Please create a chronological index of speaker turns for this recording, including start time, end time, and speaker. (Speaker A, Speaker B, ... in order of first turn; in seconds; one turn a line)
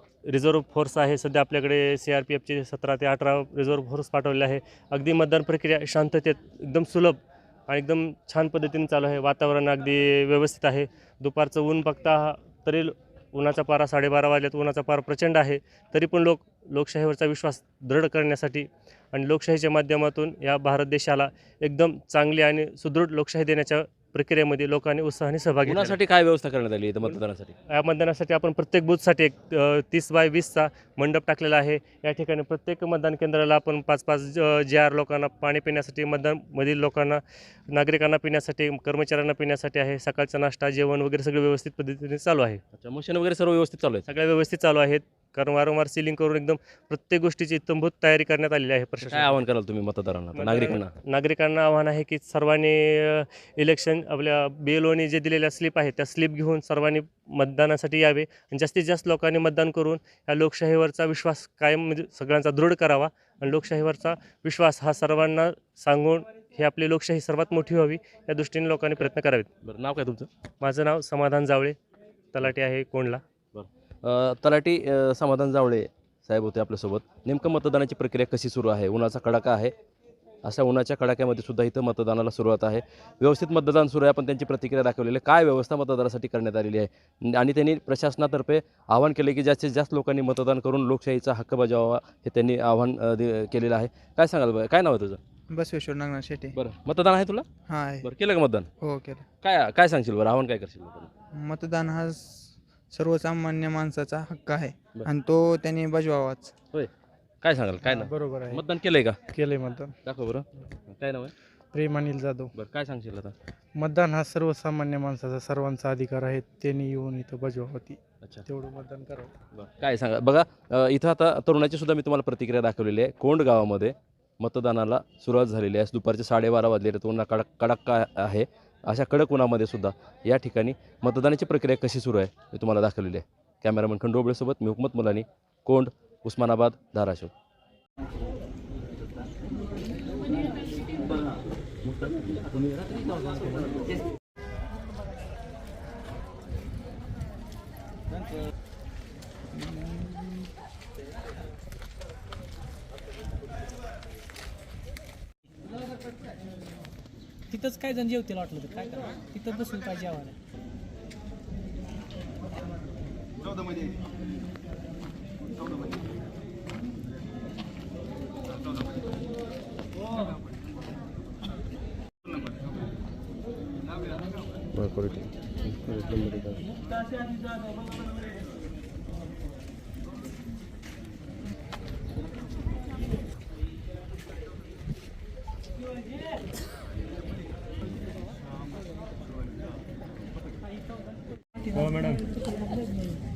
Speaker A: 0.2-26.0
Speaker B: 25.7-27.6
Speaker A: 27.7-42.6
Speaker B: 42.8-44.1
Speaker A: 44.1-49.4
Speaker B: 49.0-50.9
Speaker A: 50.4-69.5
Speaker B: 69.6-70.3
Speaker A: 70.6-71.8
Speaker A: 72.3-73.2
Speaker B: 73.5-79.7
Speaker B: 80.4-95.2
Speaker C: 95.5-96.6
Speaker B: 96.5-97.5
Speaker C: 97.7-98.1
Speaker B: 98.0-98.7
Speaker C: 98.8-99.2
Speaker B: 99.4-101.1
Speaker C: 101.3-106.5
Speaker B: 107.4-109.2
Speaker D: 107.8-108.6
Speaker D: 109.3-110.0
Speaker B: 110.0-111.3
Speaker D: 111.7-112.5
Speaker B: 112.5-113.3
Speaker D: 113.8-119.3
Speaker B: 119.5-137.3
Speaker C: 149.6-150.3
Speaker E: 157.5-160.4
Speaker B: 174.8-176.6
Speaker A: 191.7-192.3